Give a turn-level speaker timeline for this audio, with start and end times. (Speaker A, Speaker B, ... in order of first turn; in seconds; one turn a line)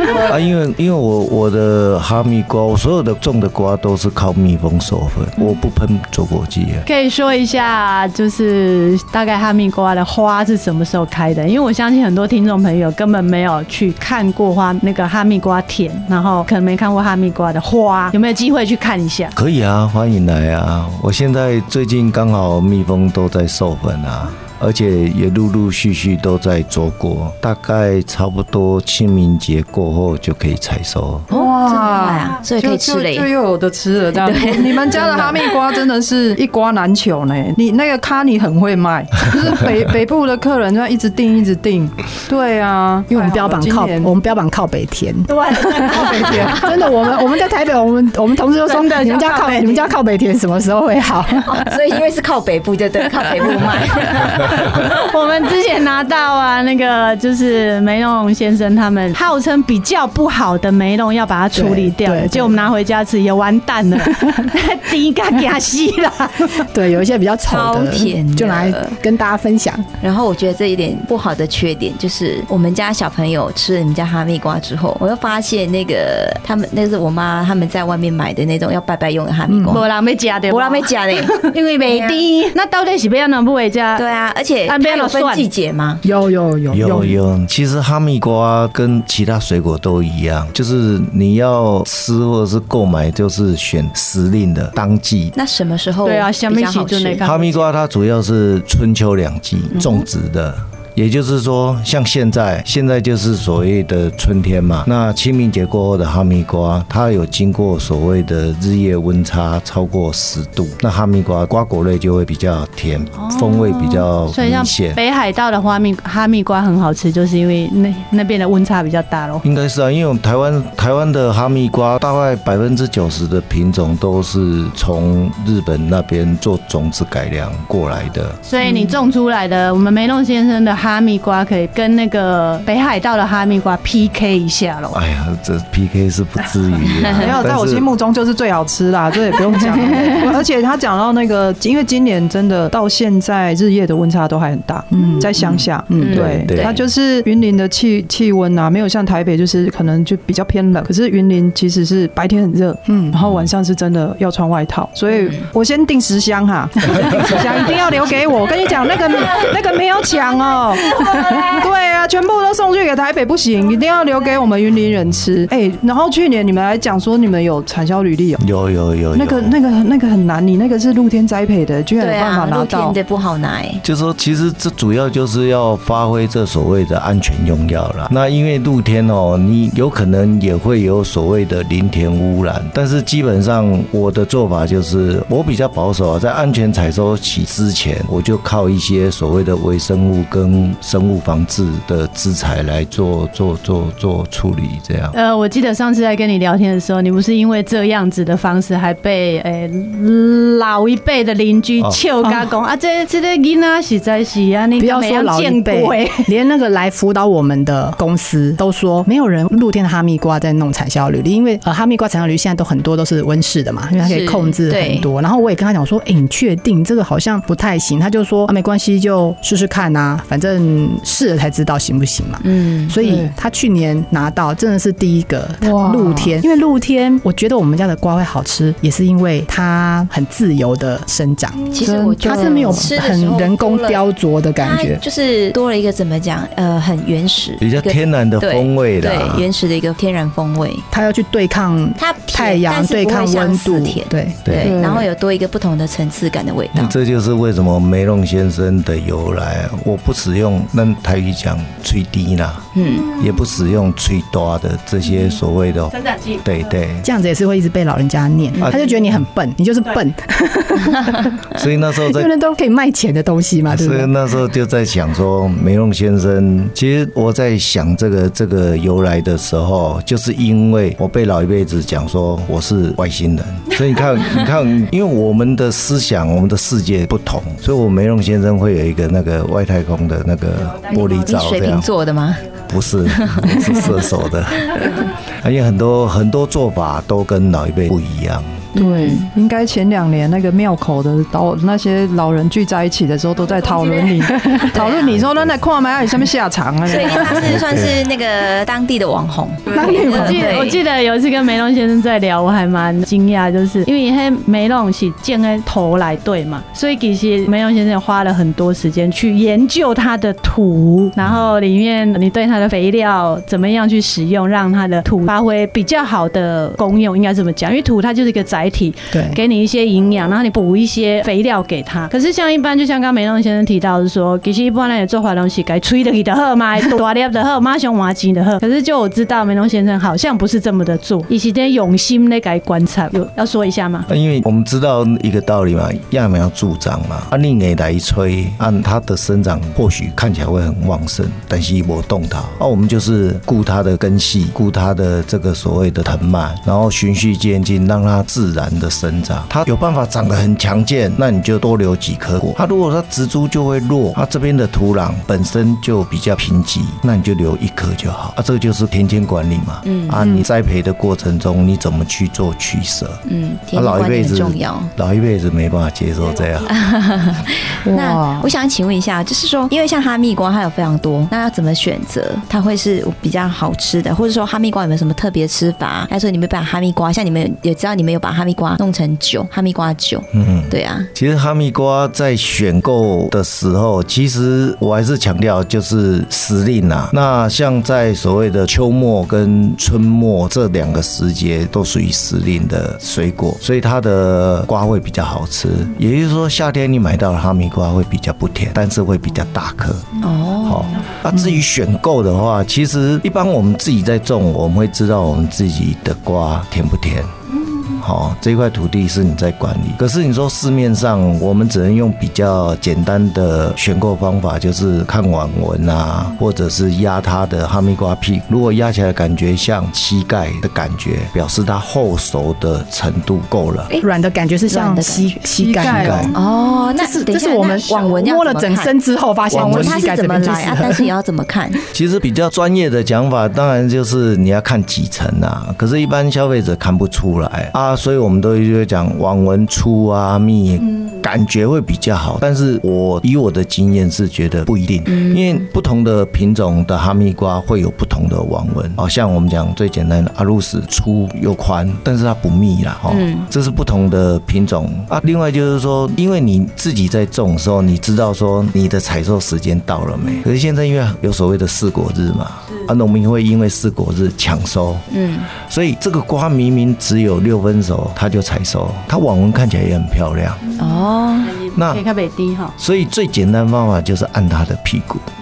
Speaker A: 0.2-6.9
Speaker B: 6.9-19.3
Speaker A: 19.4-31.3
Speaker C: 31.3-44.1
Speaker D: 31.3-33.3
Speaker D: 34.2-35.5
Speaker E: 43.1-51.7
Speaker B: 45.3-46.9
Speaker C: 45.9-46.7
Speaker B: 48.7-49.9
Speaker D: 51.5-54.9
Speaker B: 54.7-66.6
Speaker E: 61.5-62.6
Speaker E: 64.0-64.5
Speaker E: 66.6-69.9
Speaker D: 67.5-69.0
Speaker D: 70.0-79.9
Speaker E: 79.5-79.8
Speaker B: 79.7-84.0
Speaker D: 80.5-82.2
Speaker D: 84.0-86.0
Speaker B: 84.7-85.5
Speaker E: 86.0-87.2
Speaker A: 86.7-95.4
Speaker D: 95.3-97.2
Speaker B: 96.0-97.7
Speaker A: 97.2-115.0
Speaker B: 113.2-119.4
Speaker A: 119.4-128.4
Speaker B: 128.4-135.0
Speaker D: 128.6-128.9
Speaker A: 134.9-137.9
Speaker D: 136.9-137.3
Speaker C: 137.1-168.4
Speaker E: 139.8-140.2
Speaker E: 144.9-146.2
Speaker D: 146.0-146.8
Speaker A: 146.1-146.7
Speaker E: 152.9-153.2
Speaker A: 168.4-169.6
Speaker C: 169.1-173.0
Speaker D: 172.0-173.8
Speaker A: 173.8-195.2
Speaker B: 195.1-206.3
Speaker E: 204.8-235.0
Speaker D: 214.0-215.1
Speaker D: 222.4-223.0
Speaker C: 223.0-223.3
Speaker C: 225.6-226.3
Speaker D: 231.7-234.0
Speaker C: 231.8-232.9
Speaker D: 234.6-240.9
Speaker A: 237.6-239.5
Speaker E: 240.9-244.4
Speaker D: 242.0-246.9
Speaker A: 244.4-244.8
Speaker C: 244.6-245.1
Speaker A: 246.7-257.1
Speaker D: 252.8-253.1
Speaker B: 255.9-256.7
Speaker E: 257.0-261.4
Speaker A: 261.5-262.3
Speaker E: 262.0-264.1
Speaker A: 263.7-281.9
Speaker B: 280.6-281.1
Speaker D: 280.9-282.4
Speaker A: 282.7-288.7
Speaker D: 283.1-283.8
Speaker D: 288.8-289.3
Speaker C: 288.8-297.5
Speaker D: 294.6-295.2
Speaker A: 295.1-295.6
Speaker D: 296.9-300.8
Speaker A: 297.1-298.0
Speaker E: 299.7-300.6
Speaker B: 300.2-334.1
Speaker A: 311.2-311.5
Speaker E: 319.1-319.4
Speaker A: 334.1-363.2
Speaker D: 359.8-360.2
Speaker C: 360.2-360.5
Speaker D: 363.3-364.9
Speaker A: 363.7-366.7
Speaker D: 366.7-381.1
Speaker C: 367.9-368.5
Speaker A: 380.3-407.3
Speaker D: 400.2-400.9
Speaker E: 401.3-401.6
Speaker A: 407.9-423.9
Speaker E: 424.0-426.4
Speaker D: 424.7-425.4
Speaker C: 425.6-426.3
Speaker A: 425.9-426.3
Speaker D: 426.3-428.9
Speaker E: 426.9-431.1
Speaker A: 429.5-430.0
Speaker D: 429.5-431.8
Speaker A: 431.9-470.6
Speaker D: 445.1-445.6
Speaker D: 453.1-453.5
Speaker D: 465.1-465.5
Speaker B: 470.7-472.7
Speaker D: 470.8-471.6
Speaker A: 471.8-472.0
Speaker A: 472.8-475.2